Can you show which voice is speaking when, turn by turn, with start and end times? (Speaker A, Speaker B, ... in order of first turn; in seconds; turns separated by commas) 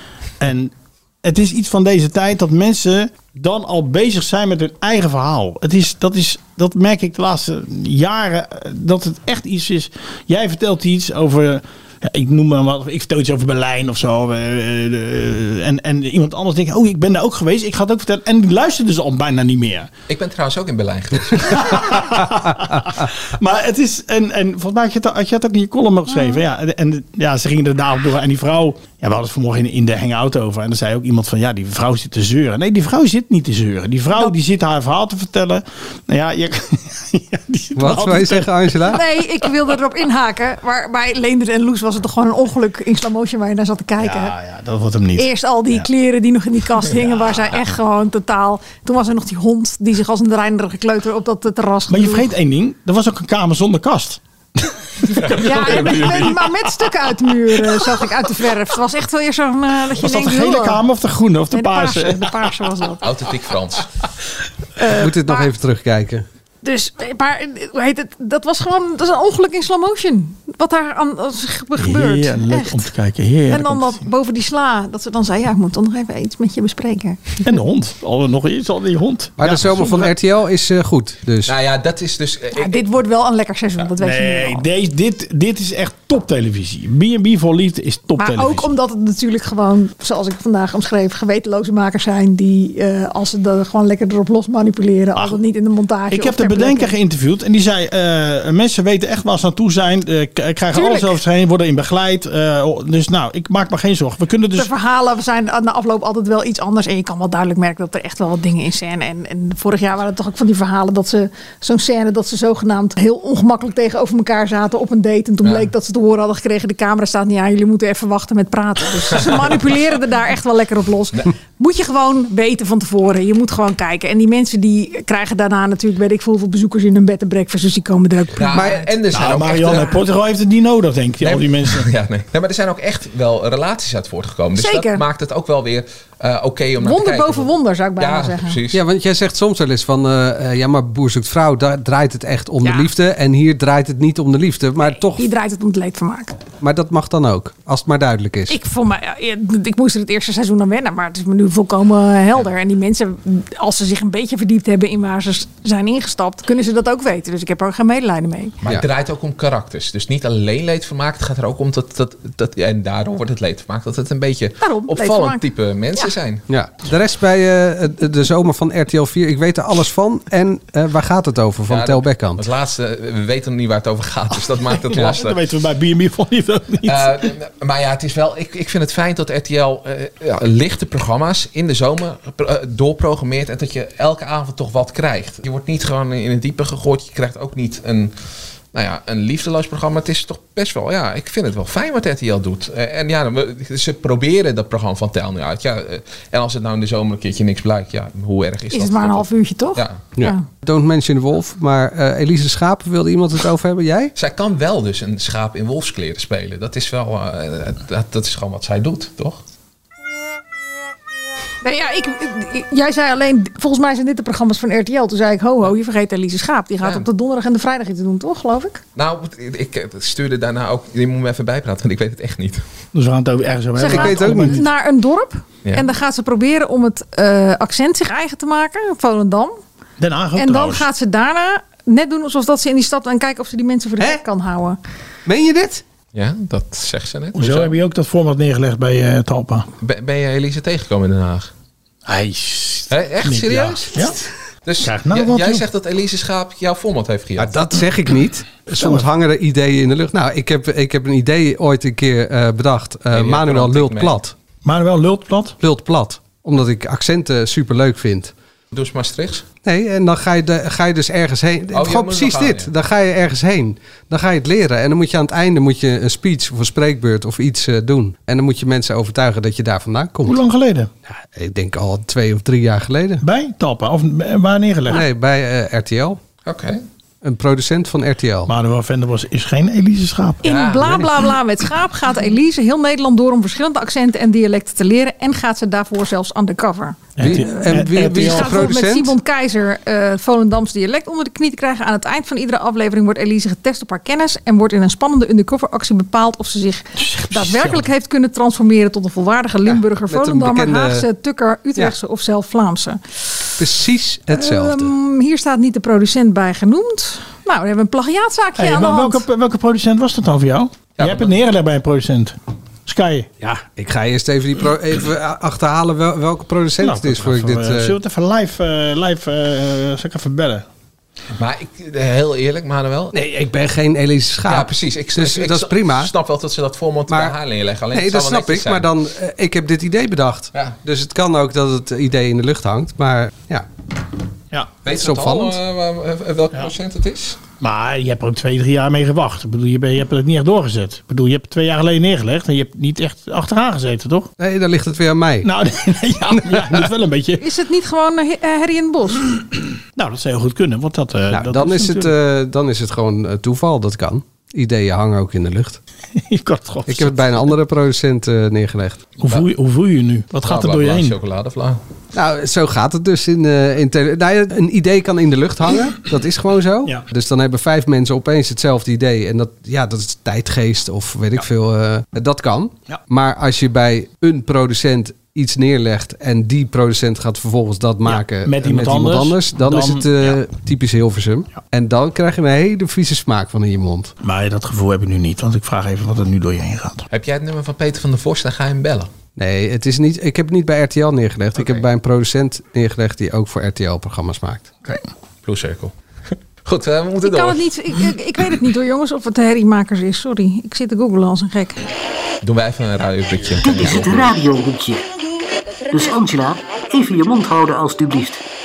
Speaker A: 0.4-19.9, Speaker B: 20.1-22.0, Speaker A: 21.5-38.9, Speaker C: 37.8-39.0, Speaker D: 38.9-44.4, Speaker A: 44.0-45.9, Speaker D: 45.2-52.3, Speaker A: 51.9-56.5, Speaker B: 55.1-56.4, Speaker D: 55.4-60.8, Speaker A: 57.6-58.0, Speaker A: 59.9-62.7, Speaker D: 61.5-63.0, Speaker B: 63.0-63.9, Speaker C: 64.9-66.3, Speaker D: 65.2-65.5, Speaker D: 66.6-72.9, Speaker A: 71.8-74.0, Speaker D: 73.5-77.4, Speaker A: 77.4-80.1, Speaker C: 79.4-81.5, Speaker B: 81.5-82.8, Speaker D: 82.5-84.7, Speaker A: 84.0-88.7, Speaker D: 88.2-97.0, Speaker A: 96.1-104.7, Speaker D: 100.7-101.2, Speaker D: 104.5-128.9, Speaker B: 115.4-115.7, Speaker B: 128.4-129.9, Speaker A: 129.1-131.9, Speaker D: 129.5-129.9, Speaker B: 131.2-138.8, Speaker D: 134.6-135.0, Speaker D: 136.8-138.6, Speaker C: 138.7-145.3, Speaker D: 142.6-142.9, Speaker D: 145.0-146.4, Speaker C: 146.6-148.6, Speaker D: 148.5-158.6, Speaker B: 158.6-166.4, Speaker D: 164.6-165.4, Speaker C: 166.5-172.4, Speaker B: 171.7-175.4, Speaker A: 174.7-177.3, Speaker B: 176.8-188.1, Speaker B: 188.7-200.0, Speaker D: 198.7-200.4, Speaker C: 200.2-204.1, Speaker B: 204.2-209.4, Speaker D: 211.6-218.8, Speaker B: 219.0-222.6, Speaker A: 222.9-224.6, Speaker D: 223.8-229.6, Speaker C: 223.8-224.6, Speaker A: 230.0-230.9, Speaker D: 230.4-234.8, Speaker C: 235.3-235.8, Speaker B: 236.1-237.8, Speaker A: 237.3-239.7, Speaker B: 239.8-241.5, Speaker A: 242.1-244.2, Speaker B: 242.9-244.1, Speaker B: 244.7-247.6, Speaker A: 244.8-245.7, Speaker C: 247.4-254.3, Speaker A: 248.7-249.1, Speaker B: 253.1-254.2, Speaker A: 254.6-255.6, Speaker C: 255.6-258.3, Speaker B: 258.7-259.5, Speaker C: 259.6-270.4, Speaker B: 261.7-262.7, Speaker A: 270.3-270.9, Speaker C: 271.1-273.2, Speaker A: 273.2-275.0, Speaker C: 274.9-276.2, Speaker B: 276.5-276.8, Speaker C: 277.2-278.5, Speaker A: 278.5-280.4, Speaker D: 280.4-303.5, Speaker B: 280.4-281.0, Speaker A: 287.2-288.7, Speaker C: 287.2-289.1, Speaker A: 297.0-297.9, Speaker C: 300.1-301.1, Speaker C: 303.6-304.9, Speaker D: 304.3-309.3, Speaker A: 308.6-312.4, Speaker B: 311.0-311.3, Speaker A: 312.9-313.3, Speaker C: 313.4-317.9, Speaker A: 316.8-320.6, Speaker B: 321.4-323.1, Speaker C: 323.1-326.1, Speaker B: 324.5-328.9, Speaker C: 327.1-327.4, Speaker C: 327.9-333.7, Speaker B: 334.9-337.4, Speaker C: 334.9-335.6, Speaker A: 337.6-344.3, Speaker C: 344.4-345.5, Speaker A: 345.4-347.4, Speaker C: 346.5-346.8, Speaker D: 347.4-349.3, Speaker A: 350.0-352.1, Speaker C: 351.3-355.8, Speaker A: 356.2-357.4, Speaker C: 356.9-359.1, Speaker A: 359.2-361.2, Speaker B: 360.4-361.8, Speaker C: 362.1-384.1, Speaker A: 378.1-380.4, Speaker A: 384.2-387.1, Speaker B: 387.1-389.1, Speaker C: 389.4-394.8, Speaker B: 395.4-395.9, Speaker B: 396.6-397.7, Speaker D: 397.2-401.8, Speaker B: 402.4-404.3, Speaker E: 403.6-405.0, Speaker E: 405.9-408.4